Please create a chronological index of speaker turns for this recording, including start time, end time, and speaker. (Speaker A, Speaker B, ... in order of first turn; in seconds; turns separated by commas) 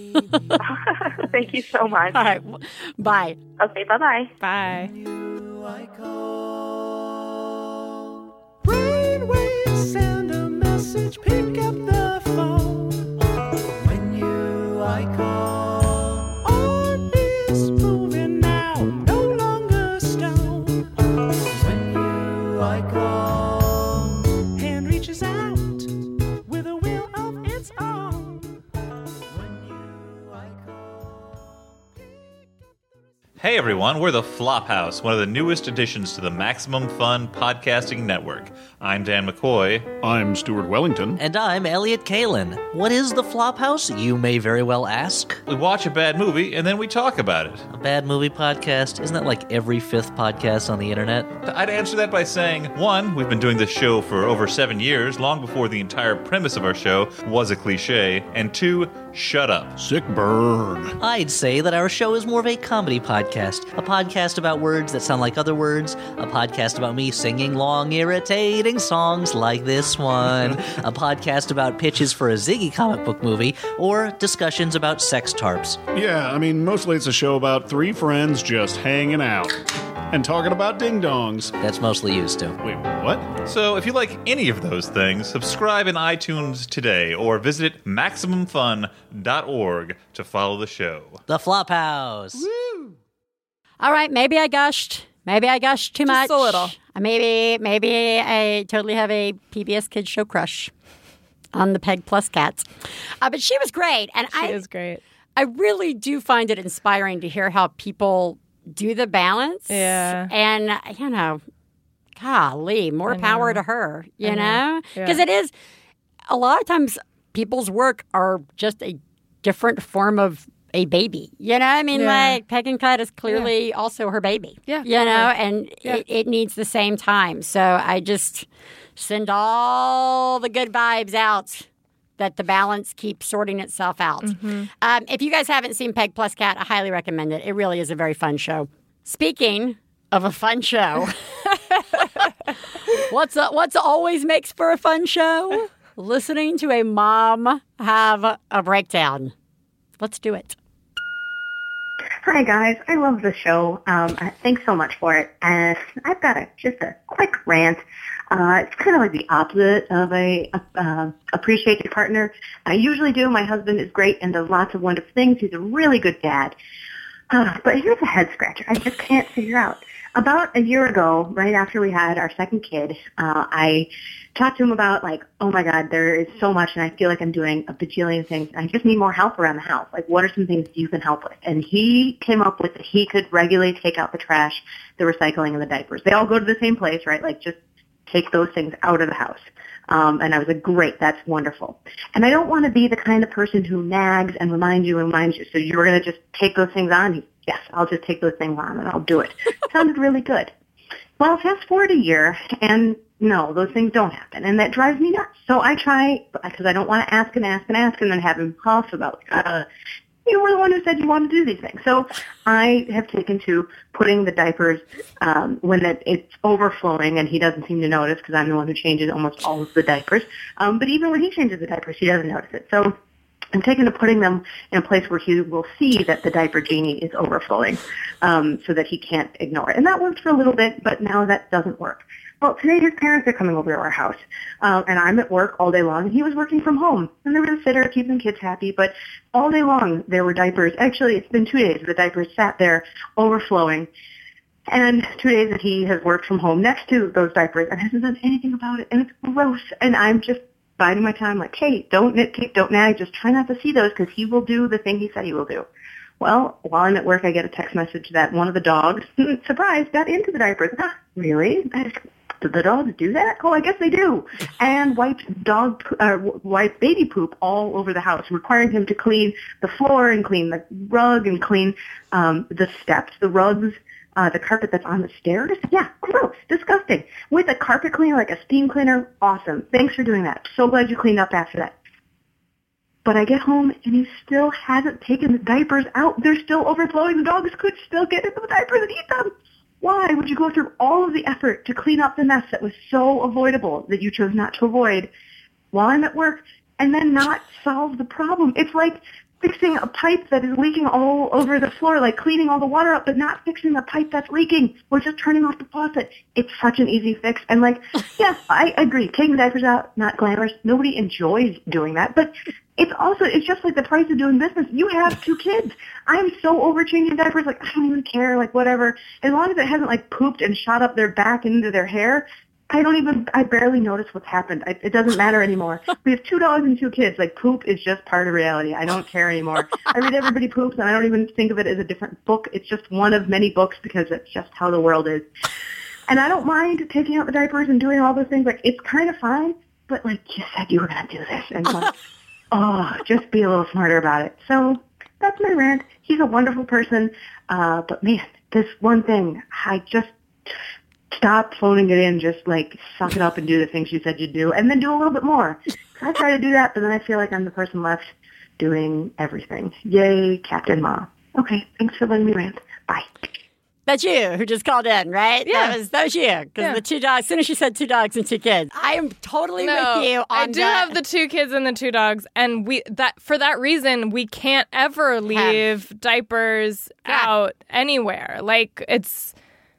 Speaker A: 0.3-0.6, Speaker B: 0.6-2.2, Speaker A: 2.1-3.4, Speaker B: 3.6-4.3, Speaker C: 4.4-4.9, Speaker D: 4.6-7.3, Speaker D: 8.6-25.9, Speaker D: 26.5-28.6, Speaker D: 29.3-31.4, Speaker D: 32.0-32.2, Speaker E: 33.4-39.9, Speaker F: 40.0-41.2, Speaker G: 41.2-45.4, Speaker E: 45.5-47.7, Speaker G: 47.7-51.3, Speaker E: 51.4-59.8, Speaker F: 59.8-61.0, Speaker G: 61.0-75.8, Speaker F: 75.9-81.5, Speaker G: 81.6-82.6, Speaker F: 82.6-83.4, Speaker E: 83.5-91.2, Speaker G: 91.3-92.5, Speaker A: 93.8-100.7, Speaker C: 96.1-96.7, Speaker A: 101.5-102.7, Speaker A: 103.2-104.6, Speaker C: 104.3-105.0, Speaker A: 105.4-111.4, Speaker C: 109.7-110.3, Speaker A: 112.2-115.5, Speaker C: 113.1-113.6, Speaker C: 114.2-115.2, Speaker A: 116.3-131.7, Speaker C: 121.9-122.4, Speaker C: 124.7-125.3, Speaker A: 132.2-141.2, Speaker C: 134.2-134.7, Speaker A: 143.0-149.3, Speaker A: 150.0-150.6, Speaker H: 152.2-166.5, Speaker H: 167.3-187.6, Speaker H: 188.1-200.5, Speaker H: 201.2-209.7, Speaker H: 210.3-222.9, Speaker H: 223.5-243.9, Speaker H: 244.7-255.7, Speaker H: 256.2-281.7, Speaker H: 283.1-295.1, Speaker H: 295.7-335.2, Speaker H: 336.1-341.9, Speaker H: 342.5-350.1, Speaker H: 351.1-358.0, Speaker H: 358.6-363.2, Speaker A: 363.9-371.0, Speaker C: 365.5-365.8, Speaker C: 369.6-379.3, Speaker A: 375.3-375.6, Speaker A: 377.1-377.3